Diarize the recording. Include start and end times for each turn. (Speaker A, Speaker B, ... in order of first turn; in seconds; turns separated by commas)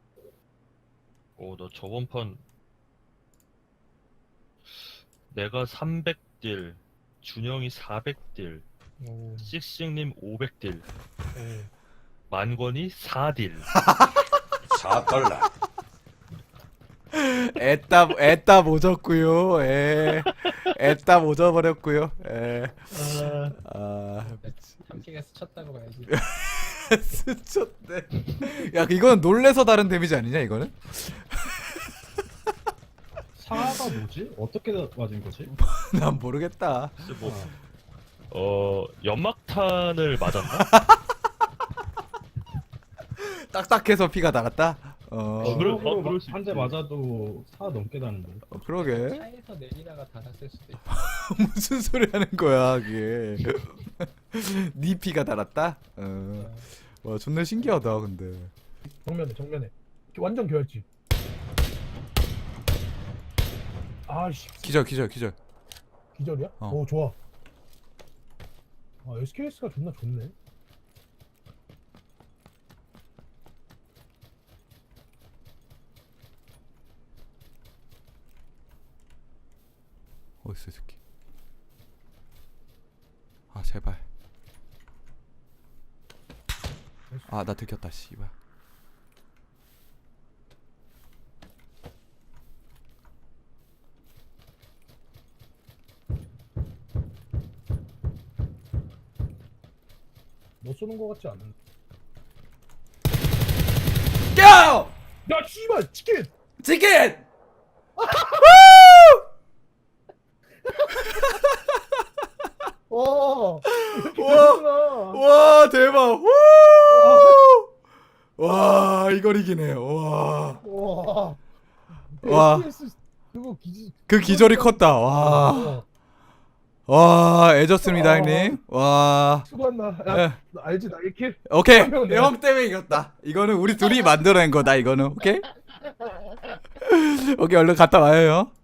Speaker A: 1.4-2.4, Speaker A: 4.7-8.7, Speaker B: 9.0-9.5, Speaker A: 9.4-10.9, Speaker B: 11.4-11.7, Speaker A: 12.3-13.7, Speaker C: 14.9-15.2, Speaker C: 17.1-24.5, Speaker B: 24.2-26.1, Speaker C: 26.1-31.9, Speaker D: 33.4-35.5, Speaker C: 33.5-33.9, Speaker C: 35.5-37.0, Speaker A: 37.0-37.5, Speaker D: 37.2-37.5, Speaker A: 38.3-40.7, Speaker C: 40.6-41.0, Speaker C: 43.2-45.8, Speaker A: 45.4-46.8, Speaker D: 45.4-48.6, Speaker C: 48.5-49.2, Speaker B: 48.8-50.9, Speaker C: 50.9-58.5, Speaker B: 56.4-56.7, Speaker E: 59.0-60.9, Speaker E: 64.1-64.8, Speaker C: 64.6-65.4, Speaker E: 66.1-67.2, Speaker E: 69.0-70.3, Speaker C: 80.4-81.0, Speaker C: 83.5-84.0, Speaker C: 87.3-88.3, Speaker E: 100.6-101.5, Speaker C: 104.3-104.9, Speaker E: 105.2-106.3, Speaker C: 106.6-107.2, Speaker E: 108.0-108.6, Speaker C: 108.4-109.2, Speaker C: 111.1-111.5, Speaker E: 112.9-115.2, Speaker C: 113.7-117.7, Speaker E: 116.9-117.4, Speaker C: 118.4-120.6, Speaker E: 120.6-121.4, Speaker E: 122.1-125.8, Speaker C: 122.2-122.7, Speaker C: 124.1-125.8, Speaker C: 126.9-129.5, Speaker E: 127.8-128.5, Speaker E: 129.5-132.4, Speaker C: 130.1-130.4, Speaker C: 131.5-135.5, Speaker C: 136.8-138.5